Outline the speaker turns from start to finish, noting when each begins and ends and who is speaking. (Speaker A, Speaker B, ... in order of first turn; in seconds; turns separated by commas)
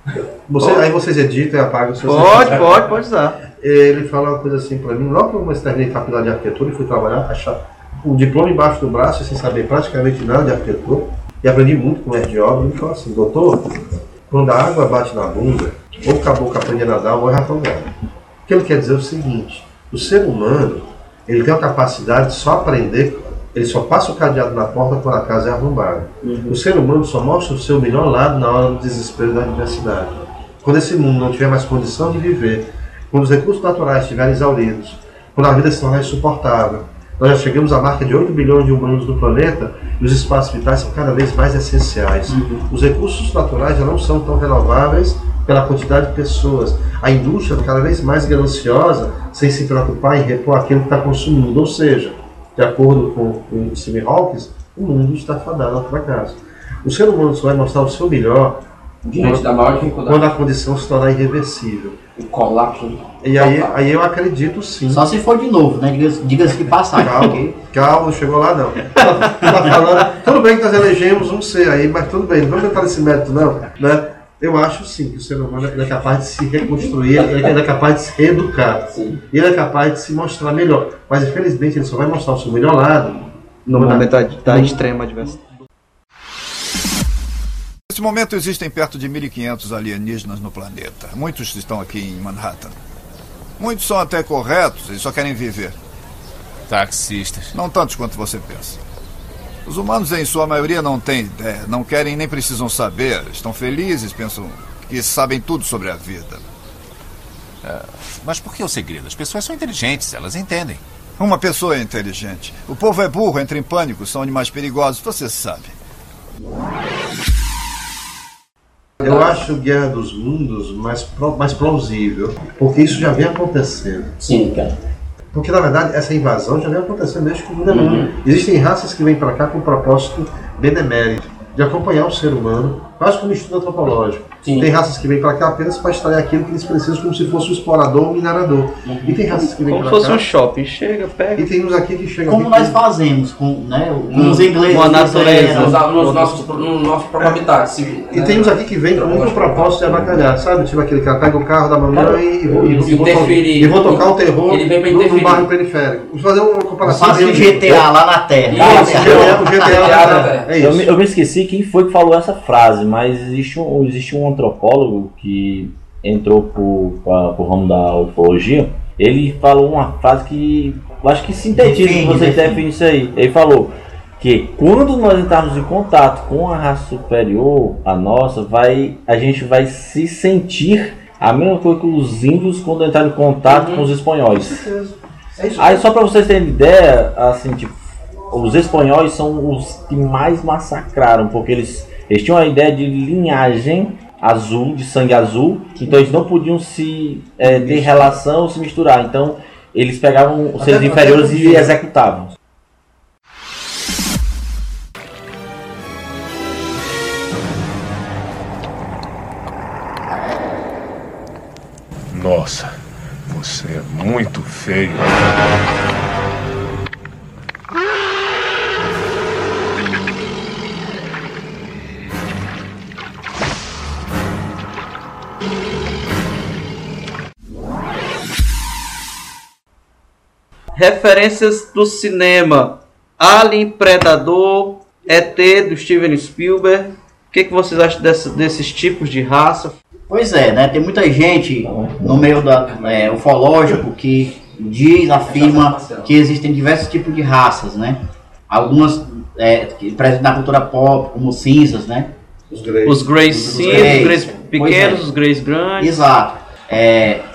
Speaker A: 0.5-2.8, Speaker B: 2.0-3.4, Speaker A: 3.5-17.9, Speaker A: 18.4-58.6, Speaker B: 26.2-26.6, Speaker C: 59.0-60.3, Speaker A: 59.2-62.0, Speaker C: 62.2-63.7, Speaker A: 63.2-65.0, Speaker D: 64.9-67.5, Speaker A: 66.9-84.8, Speaker C: 78.9-79.2, Speaker B: 83.7-85.5, Speaker E: 87.9-92.8, Speaker E: 93.6-95.8, Speaker F: 96.7-97.5, Speaker E: 97.5-98.8, Speaker E: 99.7-106.4, Speaker F: 107.6-110.8, Speaker E: 111.2-115.8, Speaker A: 119.0-124.1, Speaker C: 119.0-119.5, Speaker C: 124.2-124.7, Speaker A: 125.3-140.3, Speaker C: 127.7-128.1, Speaker C: 134.4-134.7, Speaker C: 138.8-139.2, Speaker B: 139.3-141.5, Speaker A: 141.3-142.8, Speaker D: 142.2-145.8, Speaker B: 144.2-146.7, Speaker C: 145.5-149.9, Speaker A: 148.1-157.8, Speaker G: 151.9-153.4, Speaker C: 152.7-155.5, Speaker D: 156.8-159.7, Speaker G: 157.0-157.8, Speaker C: 158.5-160.5, Speaker G: 158.6-159.6, Speaker A: 158.6-160.9, Speaker G: 160.5-184.7, Speaker D: 171.5-172.6, Speaker C: 183.5-183.8, Speaker A: 184.3-185.8, Speaker G: 185.6-202.3, Speaker B: 197.4-198.1, Speaker A: 200.6-201.7, Speaker H: 212.2-212.6, Speaker H: 213.3-215.1, Speaker B: 230.8-239.8, Speaker D: 240.1-248.0, Speaker G: 241.6-242.3, Speaker C: 245.3-246.1, Speaker D: 248.5-252.1, Speaker A: 252.5-254.4, Speaker B: 252.8-256.1, Speaker D: 253.6-255.0, Speaker D: 255.8-257.2